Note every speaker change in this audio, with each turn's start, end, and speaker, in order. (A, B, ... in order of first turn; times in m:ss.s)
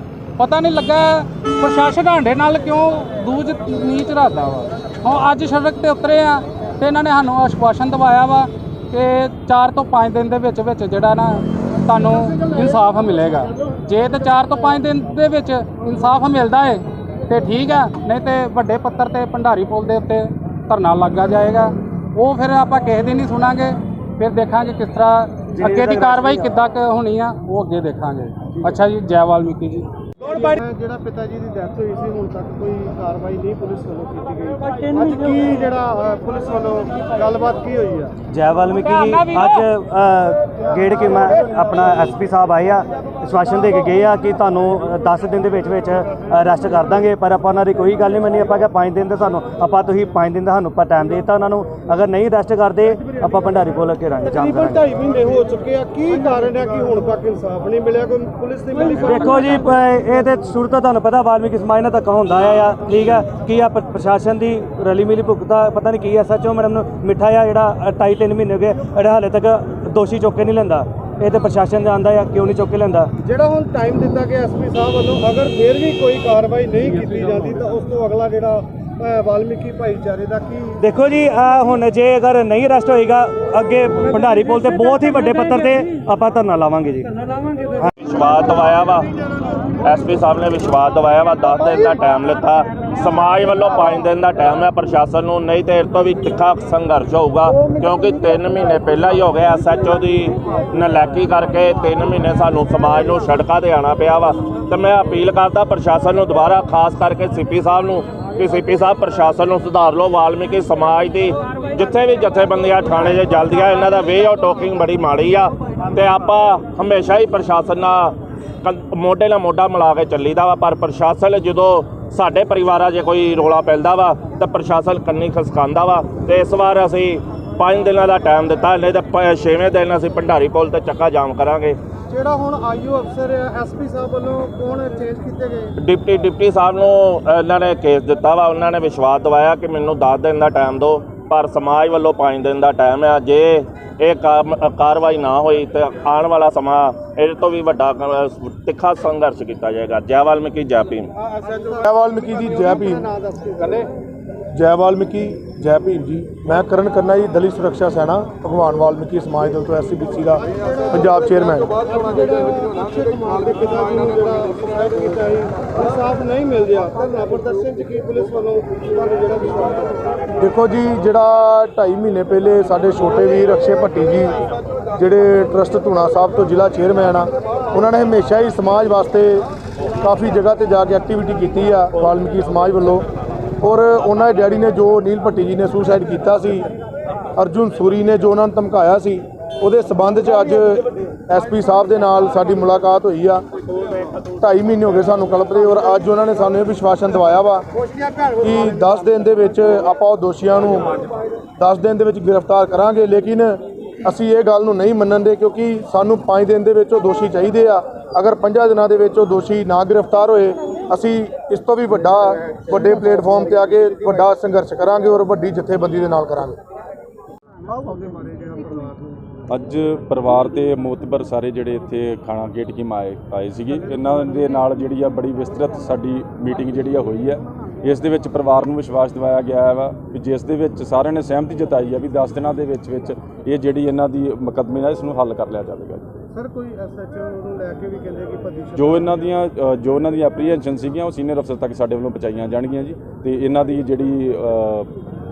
0:00.4-0:30.5 A
0:25.6-0:26.5 B
0:30.2-0:38.1 C
0:38.3-0:54.8 B
0:38.8-0:39.6 A
0:54.2-0:59.6 C
0:59.0-1:13.1 B
1:13.2-1:20.8 C
1:20.8-1:27.1 B
1:28.0-1:29.1 D
1:29.8-2:11.8 D
2:12.1-2:15.7 C
2:15.8-2:31.1 D
2:31.2-2:33.9 C
2:31.8-2:33.0 E
2:34.5-2:41.7 E
2:40.5-2:50.0 C
2:50.4-2:54.4 E
2:55.0-2:59.5 E
3:00.0-3:03.1 E
3:03.6-3:06.7 E
3:07.4-3:13.4 E
3:14.4-3:17.6 E
3:18.4-3:21.0 E
3:21.6-3:36.6 E
3:37.8-3:39.0 C
3:39.5-3:56.0 F
3:56.3-3:59.2 C
3:58.8-4:04.9 F